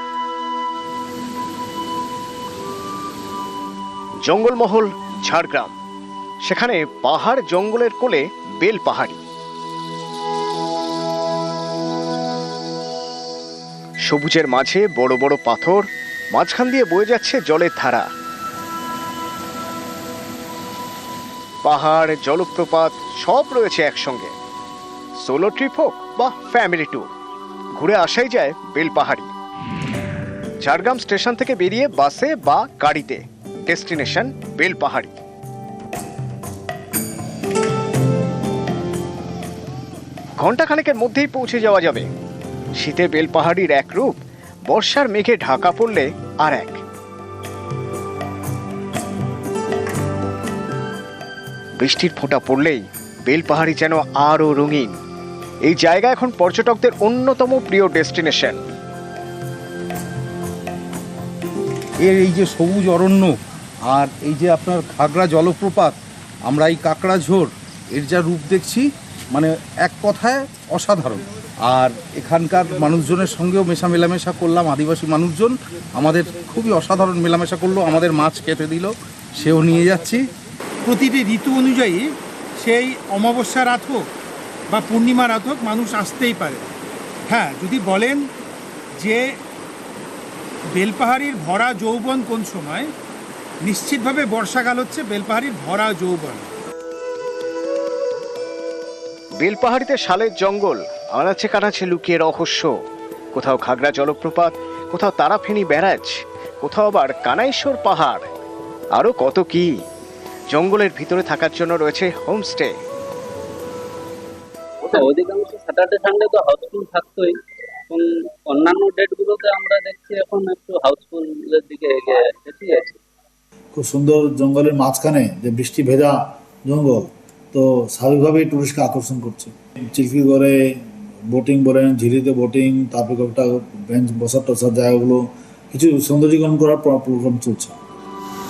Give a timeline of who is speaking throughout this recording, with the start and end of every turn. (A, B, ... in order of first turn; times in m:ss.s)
0:04.2-0:05.7 A
0:06.4-0:09.2 A
0:14.0-0:18.1 A
0:21.6-0:24.3 A
0:25.2-0:27.1 A
0:27.8-0:29.3 A
0:30.6-0:35.2 A
0:40.4-0:42.1 A
0:42.8-0:46.8 A
0:51.8-0:55.0 A
0:55.6-0:58.6 A
1:02.0-1:03.4 B
1:03.9-1:20.3 B
1:20.9-1:22.1 C
1:22.6-1:24.1 C
1:24.7-1:26.7 C
1:27.3-1:28.2 C
1:29.0-1:29.3 C
1:30.7-1:32.9 C
1:33.6-1:36.5 C
1:39.4-1:42.7 A
1:43.3-1:48.3 A
1:48.9-1:49.7 A
1:50.5-1:52.8 A
1:54.8-1:57.4 D
1:57.9-2:03.0 D
2:03.7-2:10.6 E
2:11.3-2:17.8 E